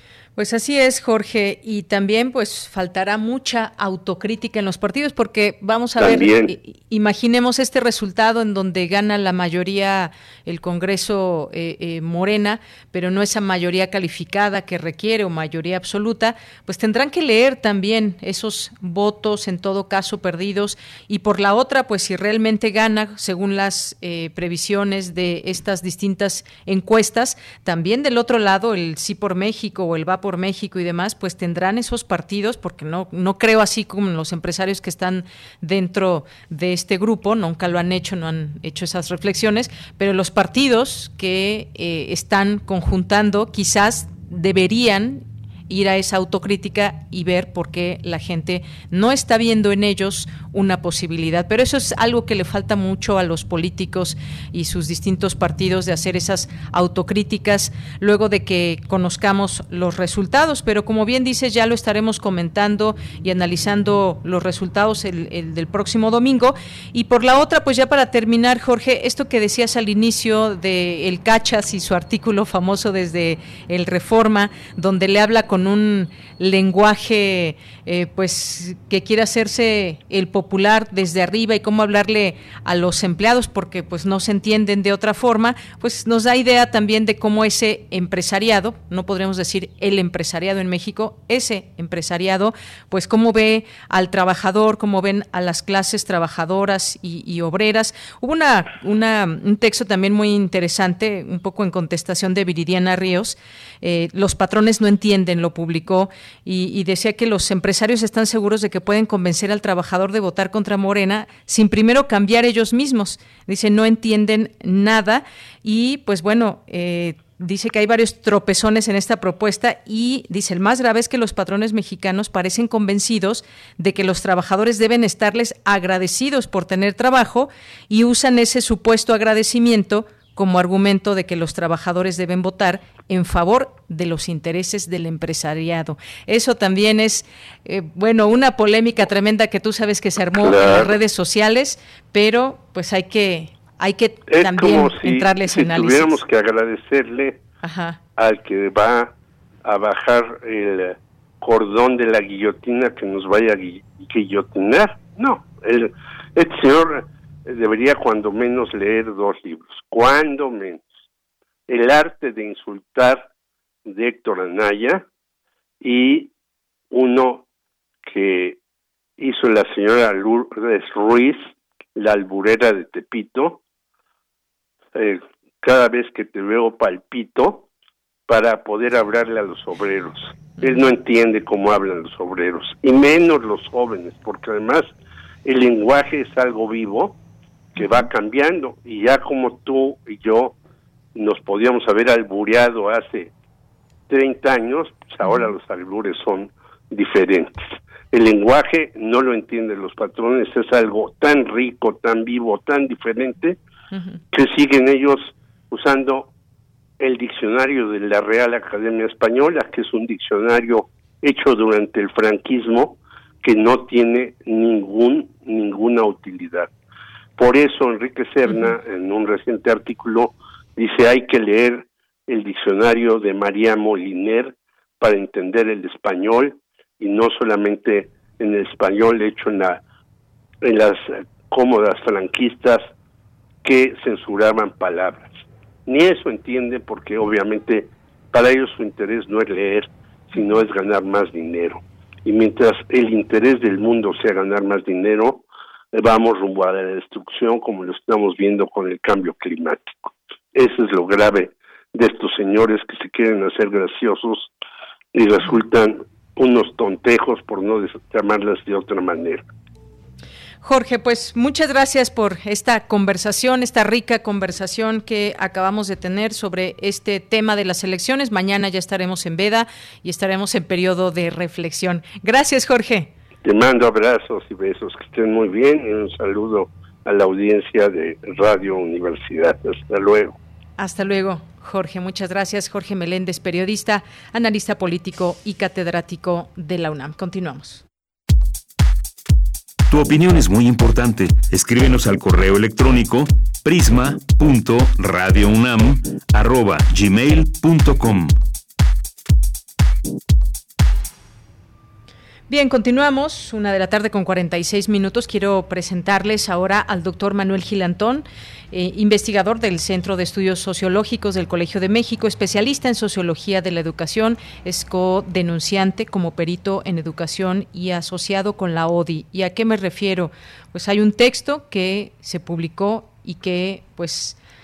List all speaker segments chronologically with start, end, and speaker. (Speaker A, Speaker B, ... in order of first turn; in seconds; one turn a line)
Speaker A: 0.4-146.2
Speaker B: 6.0-6.5
Speaker B: 140.4-140.9
Speaker B: 144.3-147.4
Speaker A: 147.6-148.0
Speaker B: 148.2-149.1
Speaker B: 149.6-160.8
Speaker B: 161.7-163.3
Speaker B: 163.9-165.0
Speaker B: 165.8-166.3
Speaker B: 166.9-167.4
Speaker B: 168.1-168.6
Speaker B: 169.2-173.6
Speaker B: 174.9-177.7
Speaker B: 178.3-184.9
Speaker A: 180.6-180.9
Speaker B: 185.4-187.2
Speaker A: 187.8-188.1
Speaker B: 187.8-190.6
Speaker B: 191.2-193.3
Speaker B: 194.1-203.6
Speaker A: 195.2-195.5
Speaker A: 203.9-204.2
Speaker B: 204.3-206.3
Speaker B: 207.0-216.7
Speaker B: 217.4-229.8
Speaker A: 218.5-218.7
Speaker B: 230.6-232.8
Speaker B: 233.6-254.5
Speaker B: 255.1-259.4
Speaker A: 260.6-273.1
Speaker B: 273.4-280.4
Speaker A: 280.8-287.8
Speaker C: 289.9-298.4
Speaker A: 302.5-324.4